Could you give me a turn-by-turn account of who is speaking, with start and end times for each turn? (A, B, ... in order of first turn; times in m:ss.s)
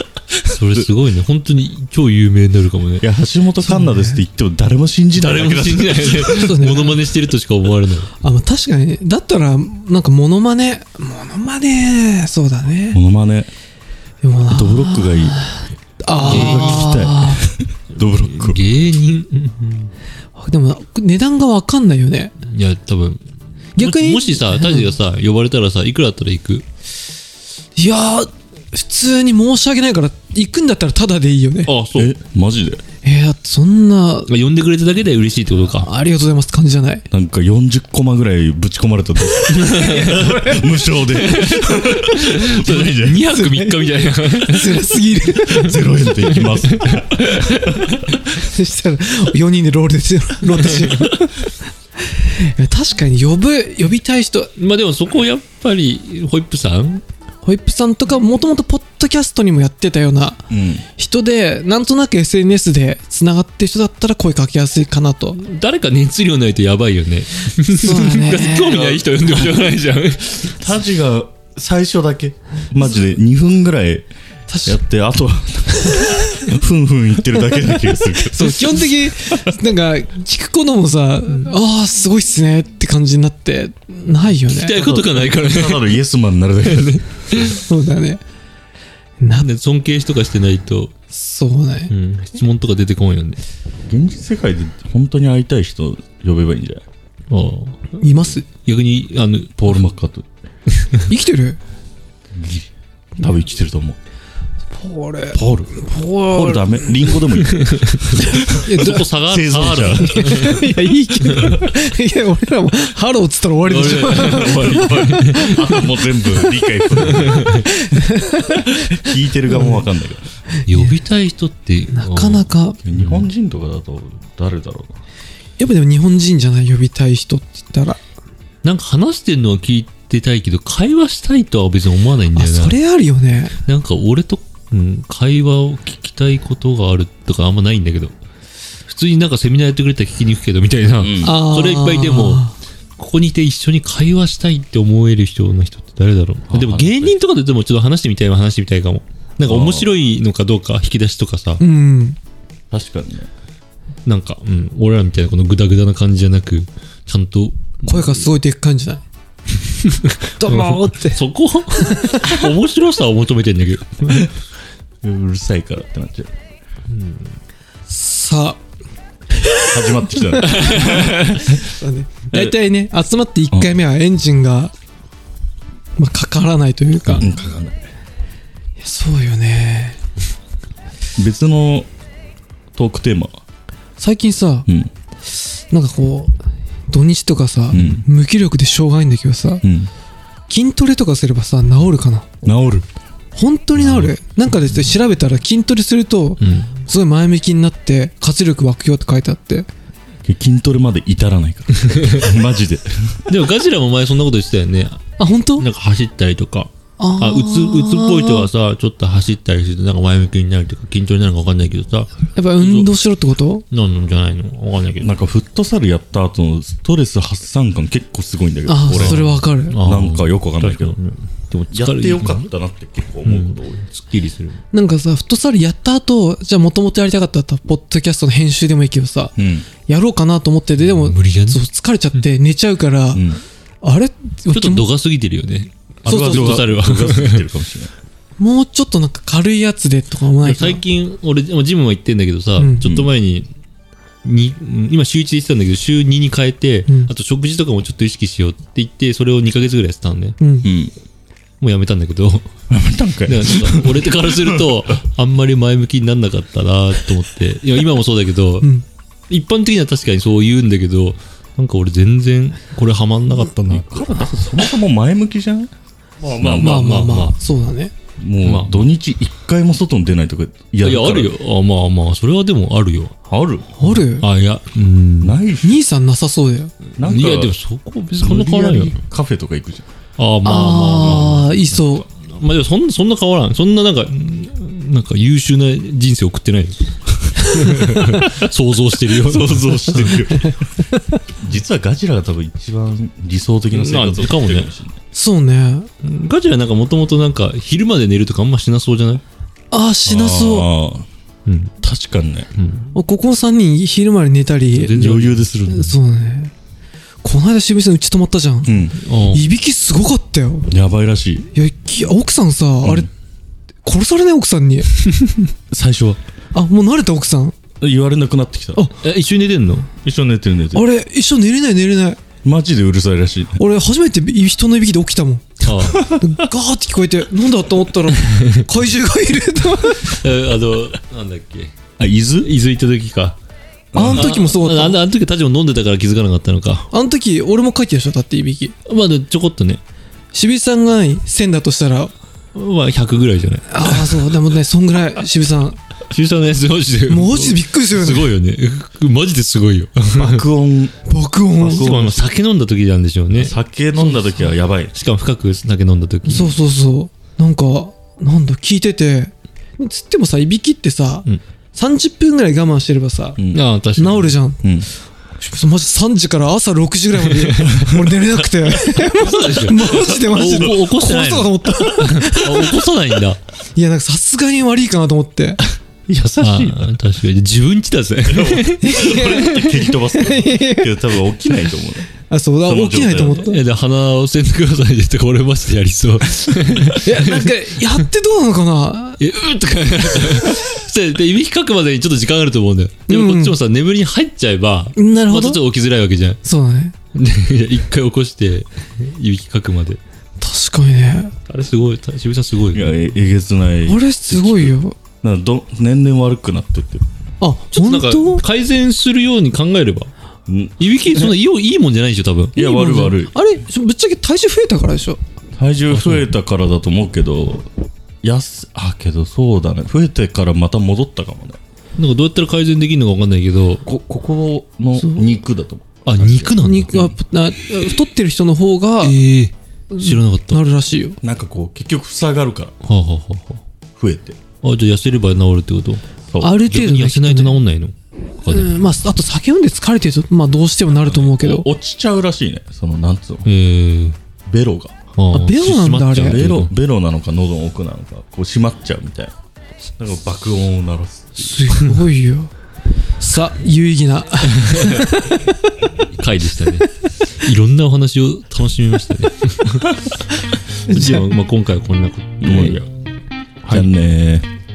0:00.4-0:03.0 A
0:03.0-0:06.5 B
0:03.6-0:04.2 C
0:05.1-0:08.1 A
0:06.2-0:07.0 C
0:08.2-0:13.0 C
0:12.9-0:13.5 B
0:14.2-0:17.4 C
0:14.5-0:15.4 B
0:16.1-0:18.6 B
0:16.2-0:17.1 A
0:18.2-0:19.9 A
0:20.4-0:22.3 C
0:22.4-0:23.2 A
0:23.8-0:24.9 C
0:23.8-0:26.6 A
0:27.8-0:31.7 C
0:31.6-0:32.1 A
0:31.9-0:32.8 B
0:33.0-0:34.3 C
0:34.3-0:35.9 A
0:35.8-0:37.0 C
0:37.1-0:43.2 B
0:39.5-0:40.2 A
0:39.6-0:40.7 C
0:41.2-0:44.9 A
0:43.1-0:45.8 C
0:45.5-0:48.2 B
0:46.3-0:47.4 A
0:48.3-0:51.5 C
0:52.0-0:54.5 C
0:54.6-0:57.0 A
0:57.4-1:00.4 C
1:00.5-1:00.8 B
1:01.0-1:05.4 C
1:05.4-1:10.6 A
1:07.7-1:08.8 C
1:08.5-1:09.7 B
1:10.4-1:14.1 B
1:14.5-1:14.8 C
1:14.6-1:19.5 B
1:15.8-1:16.5 C
1:18.3-1:25.1 C
1:24.5-1:26.0 A
1:24.9-1:27.5 B
1:26.6-1:27.6 A
1:27.6-1:28.2 C
1:29.2-1:29.5 C
1:29.3-1:30.9 A
1:31.1-1:31.9 C
1:31.9-1:33.4 A
1:33.9-1:36.8 B
1:37.3-1:39.7 A
1:38.0-1:38.4 C
1:39.6-1:40.2 B
1:41.1-1:41.6 C
1:42.3-1:44.0 B
1:44.8-1:47.2 C
1:45.3-1:50.5 B
1:48.3-1:49.2 C
1:48.5-1:50.7 A
1:49.8-1:55.6 C
1:51.2-1:51.5 A
1:53.6-1:55.8 A
1:54.2-2:00.2 B
1:57.1-1:57.6 A
1:57.6-1:58.6 C
1:59.5-1:59.8 C
2:00.7-2:02.4 A
2:00.7-2:00.9 C
2:01.9-2:02.8 C
2:02.8-2:04.9 B
2:03.0-2:03.3 A
2:05.6-2:08.0 C
2:08.6-2:12.8 A
2:12.3-2:13.5 C
2:13.6-2:18.1 A
2:18.9-2:31.6 A
2:21.0-2:21.4 B
2:21.2-2:22.5 C
2:26.5-2:27.1 B
2:29.4-2:29.9 B
2:31.6-2:32.2 C
2:32.7-2:33.3 B
2:34.0-2:38.3 A
2:37.8-2:39.0 C
2:39.8-2:44.3 A
2:40.4-2:41.2 C
2:41.7-2:42.5 C
2:45.0-2:46.3 B
2:46.9-2:47.3 A
2:47.9-2:48.6 C
2:49.4-2:49.6 C
2:49.6-2:51.3 B
2:50.4-2:54.7 C
2:50.4-2:51.6 A
2:56.0-2:57.3 C
2:57.1-2:57.9 B
2:58.8-3:00.0 C
3:01.2-3:01.9 B
3:02.7-3:03.4 B
3:04.0-3:04.7 C
3:05.7-3:06.3 C
3:06.9-3:09.6 C
3:07.7-3:08.0 B
3:07.7-3:08.0 A
3:09.6-3:09.9 B
3:10.5-3:12.4 C
3:12.4-3:12.8 B
3:13.3-3:19.7 C
3:13.8-3:14.9 A
3:16.4-3:16.7 A
3:20.2-3:23.2 B
3:21.9-3:22.2 A
3:23.3-3:25.0 A
3:25.2-3:25.7 C
3:25.6-3:32.9 A
3:27.0-3:28.5 C
3:32.4-3:33.6 C
3:33.7-3:35.2 A
3:35.0-3:41.0 B
3:38.6-3:39.8 C
3:38.9-3:42.5 A
3:41.7-3:43.8 B
3:43.2-3:44.6 A
3:44.7-3:49.3 C
3:49.4-3:49.7 B
3:49.8-3:53.2 C
3:50.8-3:51.6 A
3:53.1-3:53.4 B
3:53.8-3:54.9 C
3:54.5-3:57.4 A
3:56.0-3:56.6 C
3:56.0-3:57.9 B
3:58.4-4:00.8 C
4:00.4-4:03.5 A
4:02.6-4:02.8 C
4:02.8-4:03.1 B
4:04.2-4:10.4 A
4:10.4-4:10.7 C
4:10.6-4:10.9 B
4:11.6-4:12.4 A
4:12.7-4:14.9 B
4:13.3-4:18.7 A
4:19.3-4:24.0 A
4:23.7-4:26.9 B
4:26.2-4:27.4 A
4:26.4-4:27.9 C
4:28.2-4:31.3 B
4:28.4-4:28.8 A
4:30.8-4:33.1 A
4:33.3-4:33.7 B
4:33.8-4:34.2 C
4:33.9-4:35.4 A
4:35.2-4:35.8 B
4:35.6-4:36.7 C
4:37.0-4:37.5 B
4:37.0-4:39.0 A
4:38.2-4:39.8 B
4:40.2-4:50.2 A
4:40.4-4:42.0 C
4:49.2-4:50.5 B
4:51.4-4:55.0 B
4:53.7-4:54.7 A
4:55.1-4:55.9 C
4:56.0-4:59.2 A
4:59.7-5:00.7 C
5:00.0-5:01.0 B
5:01.4-5:01.7 A
5:01.8-5:02.5 B
5:02.6-5:02.9 A
5:02.9-5:05.1 C
5:04.7-5:05.5 A
5:04.8-5:05.9 B
5:05.6-5:06.5 C
5:07.2-5:10.7 C
5:08.6-5:09.0 B
5:09.0-5:09.4 A
5:10.7-5:11.5 B
5:11.5-5:13.1 C
5:12.8-5:13.1 B
5:13.8-5:14.9 C
5:15.7-5:16.2 B
5:16.5-5:17.6 C
5:17.8-5:18.8 B
5:19.0-5:19.9 A
5:20.0-5:20.8 B
5:20.7-5:22.2 C
5:22.4-5:23.6 B
5:23.6-5:30.2 C
5:25.6-5:26.1 A
5:25.8-5:26.2 B
5:28.3-5:28.6 A
5:30.1-5:31.7 A
5:32.0-5:32.5 B
5:32.4-5:33.4 A
5:33.9-5:34.3 B
5:33.9-5:35.0 C
5:34.1-5:36.9 A
5:36.9-5:38.7 C
5:38.8-5:39.8 A
5:40.3-5:42.1 C
5:42.5-5:44.2 A
5:43.7-5:45.8 C
5:46.1-5:50.4 A
5:47.1-5:48.4 C
5:50.2-5:51.0 B
5:51.0-5:51.9 C
5:51.6-5:53.5 A
5:51.6-5:52.2 B
5:53.3-5:54.9 B
5:54.9-5:56.5 A
5:56.2-6:03.4 C
6:03.5-6:04.4 A
6:04.0-6:04.6 C
6:04.6-6:04.9 B
6:05.4-6:12.9 C
6:07.2-6:07.8 A
6:09.0-6:13.4 A
6:10.4-6:10.7 B
6:13.7-6:15.6 C
6:16.1-6:16.9 B
6:16.4-6:19.0 A
6:18.3-6:22.1 B
6:18.8-6:21.0 C
6:22.3-6:23.6 C
6:22.6-6:23.4 B
6:23.2-6:27.5 A
6:27.0-6:29.2 C
6:29.2-6:36.4 A
6:33.1-6:33.6 C
6:35.0-6:35.6 C
6:36.4-6:36.9 C
6:37.1-6:40.0 A
6:40.4-6:41.3 C
6:41.5-6:42.9 A
6:42.7-6:47.0 B
6:43.9-6:45.0 C
6:47.4-6:48.4 C
6:47.7-6:50.1 A
6:50.5-6:51.3 B
6:50.8-6:52.6 A
6:52.6-6:53.3 B
6:52.6-6:55.2 C
6:55.6-6:57.7 B
6:55.9-6:56.3 A
6:58.2-7:01.6 B
7:02.0-7:03.8 A
7:03.8-7:06.6 B
7:05.0-7:05.3 C
7:06.0-7:07.1 A
7:06.5-7:09.2 C
7:09.0-7:10.6 A
7:09.9-7:11.2 C
7:11.2-7:12.7 B
7:12.8-7:13.6 A
7:14.0-7:14.4 B
7:14.6-7:16.0 A
7:16.4-7:17.6 C
7:16.6-7:18.8 A
7:18.4-7:21.7 C
7:21.1-7:23.5 B
7:23.4-7:24.2 A
7:24.4-7:24.9 B
7:25.2-7:26.7 A
7:25.3-7:26.4 C
7:26.2-7:29.3 B
7:30.0-7:31.6 B
7:31.4-7:32.5 C
7:33.2-7:35.5 C
7:36.1-7:39.9 A
7:40.8-7:42.9 A
7:40.9-7:41.3 C
7:42.4-7:42.8 B
7:43.6-7:43.9 A
7:43.7-7:44.5 B